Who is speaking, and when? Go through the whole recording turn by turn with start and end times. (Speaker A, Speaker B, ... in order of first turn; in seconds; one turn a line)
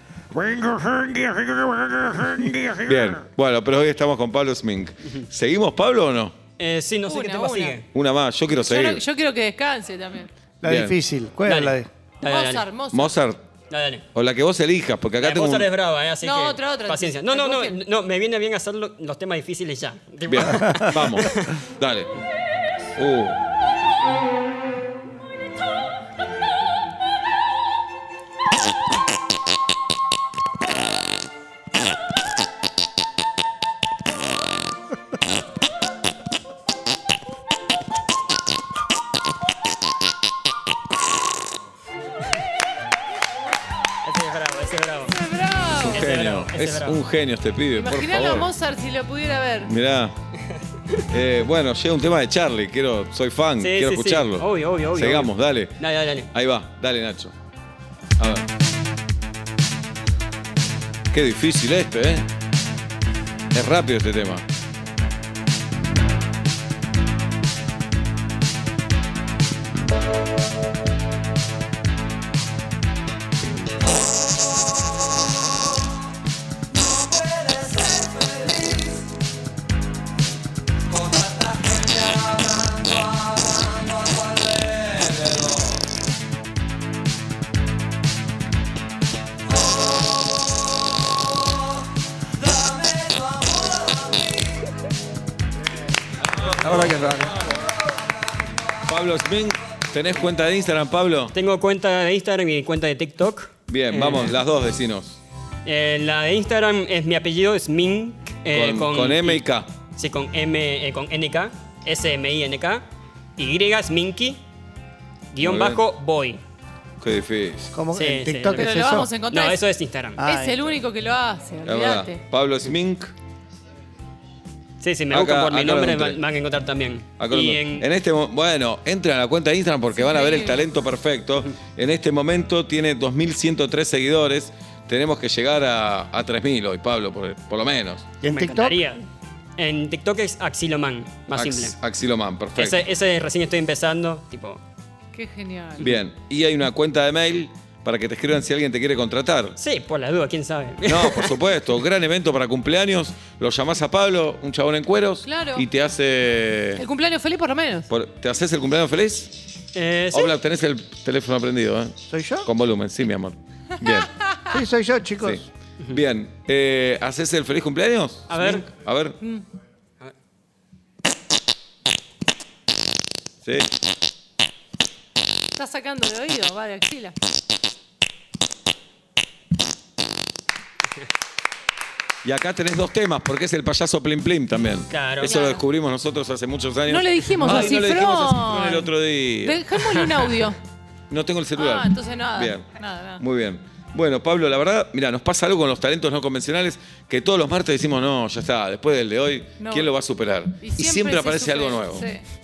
Speaker A: 0.3-6.4
Speaker B: 6.6-7.9
Speaker C: 7.1-7.8
Speaker A: 7.9-9.0
Speaker C: 8.5-10.3
Speaker D: 10.6-11.9
Speaker A: 10.7-11.0
Speaker B: 11.4-12.7
Speaker C: 12.2-13.2
Speaker A: 12.9-13.4
Speaker B: 13.7-14.1
Speaker A: 14.1-15.7
Speaker B: 15.2-21.6
Speaker C: 16.2-17.8
Speaker A: 20.3-22.1
Speaker A: 23.0-23.4
Speaker B: 44.0-45.2
Speaker C: 45.1-46.0
Speaker B: 45.8-47.0
Speaker A: 45.8-48.5
Speaker C: 47.8-49.7
Speaker A: 49.6-50.1
Speaker A: 51.1-55.8
Speaker B: 53.6-56.3
Speaker A: 56.3-57.3
Speaker A: 58.2-58.5
Speaker A: 61.1-62.3
Speaker A: 63.5-64.4
Speaker A: 77.0-79.0
Speaker A: 80.9-85.6
Speaker A: 96.4-97.3
Speaker B: 96.7-97.0
Speaker A: 98.9-101.3
Speaker B: 101.3-104.4
Speaker A: 103.7-105.2
Speaker B: 105.7-112.8
Speaker A: 108.5-109.7
Speaker B: 113.4-114.4
Speaker B: 115.3-116.4
Speaker A: 115.4-115.8
Speaker A: 117.0-117.7
Speaker D: 117.7-119.1
Speaker B: 117.9-118.7
Speaker C: 118.5-119.6
Speaker B: 119.3-120.2
Speaker D: 120.2-120.6
Speaker C: 120.2-122.2
Speaker A: 121.7-123.2
Speaker B: 124.8-127.9
Speaker A: 125.1-126.2
Speaker A: 127.2-138.1
Speaker C: 129.9-130.6
Speaker D: 138.2-138.8
Speaker B: 138.2-139.0
Speaker B: 139.6-141.8
Speaker A: 141.3-142.8
Speaker B: 142.6-144.6
Speaker C: 145.1-145.9
Speaker A: 145.8-149.6
Speaker B: 149.6-151.4
Speaker A: 150.8-156.9
Speaker C: 155.2-155.7
Speaker C: 156.8-157.9
Speaker A: 157.9-159.3
Speaker B: 159.7-160.4
Speaker A: 160.1-164.1
Speaker D: 162.1-162.5
Speaker C: 163.8-164.3
Speaker D: 164.5-165.4
Speaker A: 165.2-169.2
Speaker B: 168.3-168.7
Speaker C: 175.6-177.2
Speaker A: 182.2-189.8
Speaker B: 184.9-185.4
Speaker C: 185.2-185.7
Speaker C: 186.9-190.6
Speaker B: 189.8-190.3
Speaker A: 191.1-202.1
Speaker C: 191.5-193.2
Speaker C: 199.6-199.9
Speaker C: 200.6-202.2